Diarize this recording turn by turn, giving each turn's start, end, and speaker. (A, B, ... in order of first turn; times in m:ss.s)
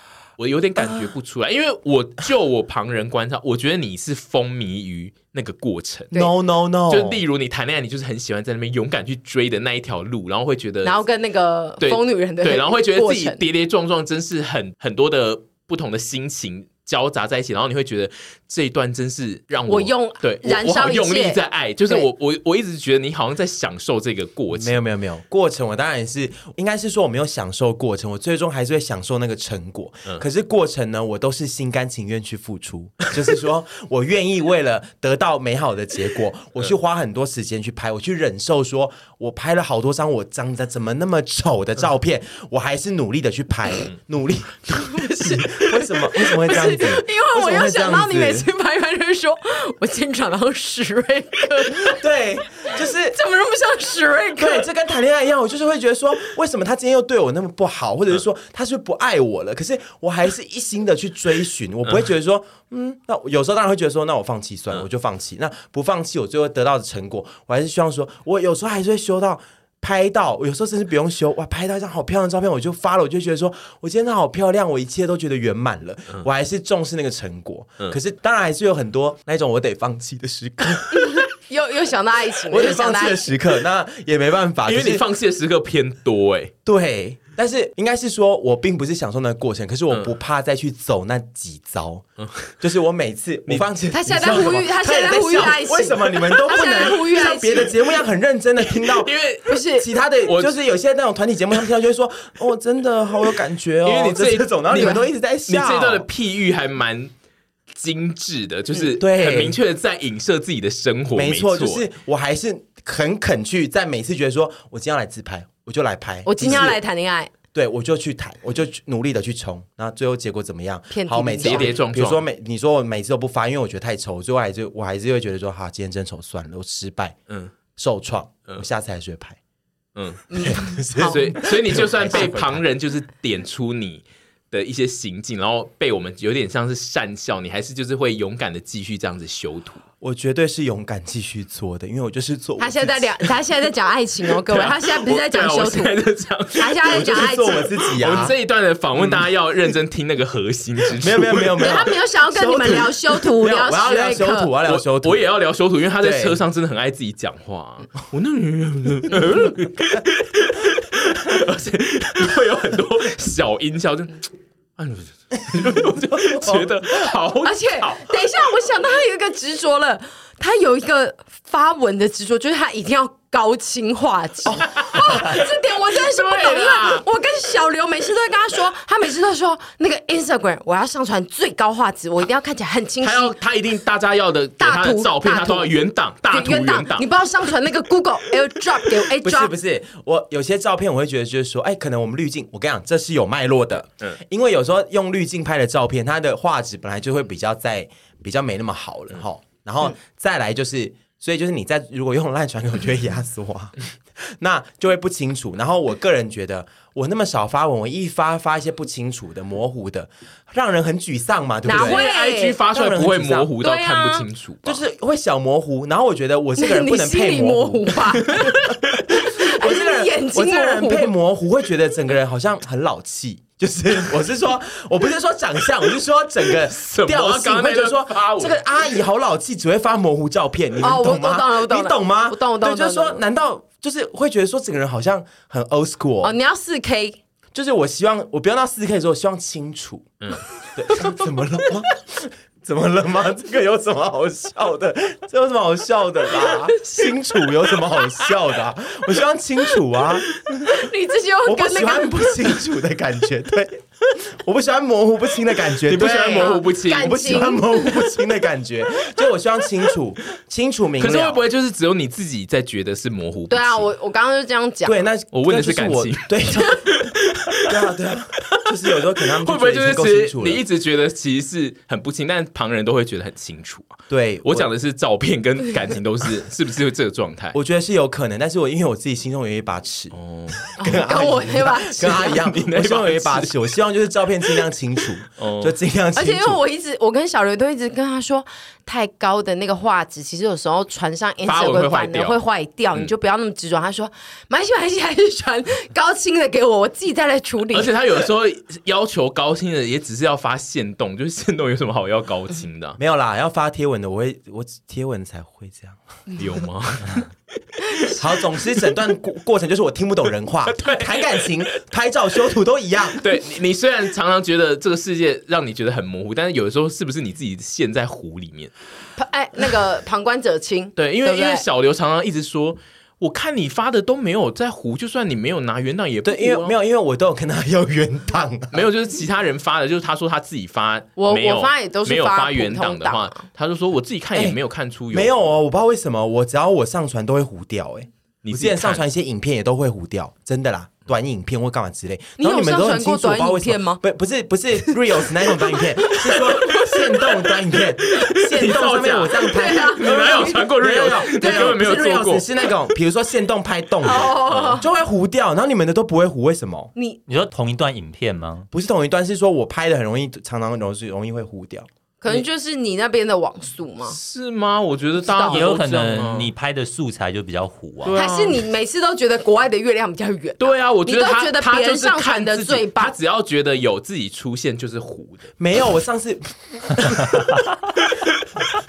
0:00.4-0:06.1 A
0:06.1-0:07.2 B
0:06.9-0:11.0 A
0:10.8-0:13.4 C
0:11.8-0:24.8 A
0:19.7-0:22.1 C
0:24.5-0:48.5 B
0:44.7-0:52.0 C
0:51.8-0:53.2 B
0:53.1-0:54.7 C
0:54.4-1:21.2 B
1:20.9-1:23.3 C
1:22.5-1:25.0 B
1:24.7-1:26.5 A
1:26.7-1:32.0 B
1:32.2-1:32.5 A
1:32.6-1:39.1 B
1:33.9-1:37.7 C
1:38.7-1:39.5 A
1:39.5-1:39.9 C
1:39.7-1:46.1 B
1:40.2-1:40.6 A
1:43.8-1:47.1 A
1:44.7-1:45.0 C
1:47.7-1:51.9 A
1:48.8-1:49.6 B
1:51.1-1:56.8 B
1:56.3-1:57.3 C
1:56.4-1:56.7 A
1:57.5-2:07.2 B
2:00.9-2:01.7 C
2:01.4-2:02.2 A
2:07.8-2:09.4 B
2:10.0-2:10.3 A
2:10.3-2:11.2 C
2:10.4-2:12.6 B
2:11.0-2:19.8 A
2:20.0-2:23.1 B
2:22.6-2:26.0 C
2:24.5-2:27.3 A
2:26.5-2:27.7 C
2:26.9-2:28.3 B
2:27.9-2:31.6 A
2:29.0-2:29.3 B
2:31.0-2:35.2 B
2:31.6-2:34.5 C
2:34.7-2:44.3 A
2:36.0-2:36.4 B
2:44.8-2:48.3 A
2:46.3-2:46.7 B
2:47.4-3:03.4 C
2:54.4-2:55.3 B
2:54.7-2:57.0 A
3:03.0-3:07.1 A
3:04.6-3:05.7 C
3:06.3-3:09.5 C
3:09.2-3:32.0 B
3:31.6-3:32.6 C
3:31.7-3:34.8 A
3:32.7-3:33.5 B
3:33.6-3:34.3 C
3:34.6-3:56.3 B
3:36.6-3:38.6 C
3:39.2-3:41.1 C
3:46.6-3:48.6 A
3:50.8-3:53.2 C
3:56.2-3:57.2 C
3:57.5-4:00.1 B
4:00.7-4:10.4 B
4:06.8-4:07.1 C
4:10.6-4:12.4 C
4:11.4-4:21.4 B
4:15.9-4:17.5 A
4:16.0-4:18.0 C
4:21.0-4:23.9 A
4:23.5-4:25.0 C
4:24.8-4:26.8 B
4:25.3-4:27.8 A
4:27.7-4:30.6 B
4:28.6-4:37.6 A
4:34.1-4:34.7 B
4:37.5-4:46.6 B
4:40.1-4:40.7 A
4:40.8-4:42.4 C
4:42.1-4:43.6 A
4:45.4-4:45.8 A
4:46.1-4:57.9 C
4:51.4-4:52.4 A
4:57.7-5:03.0 A
5:03.0-5:06.0 B
5:06.4-5:07.3 A
5:07.9-5:09.0 A
5:08.1-5:13.2 B
5:10.7-5:11.8 A
5:13.2-5:18.7 A
5:19.2-5:21.6 C
5:21.0-5:26.7 A
5:26.2-5:28.8 B
5:28.7-5:35.4 A
5:31.2-5:33.4 C
5:35.1-5:56.9 B
5:38.4-5:39.0 A
5:42.4-5:44.0 C
5:46.2-5:52.5 A
5:49.4-5:52.1 C
5:54.0-5:54.9 C
5:57.0-5:57.2 C
5:57.3-5:58.7 D
5:58.7-6:01.9 B
6:02.2-6:04.2 C
6:04.0-6:06.5 A
6:05.2-6:05.7 C
6:05.5-6:08.2 D
6:08.0-6:08.6 A
6:08.1-6:13.1 C
6:10.6-6:15.5 A
6:15.6-6:17.6 B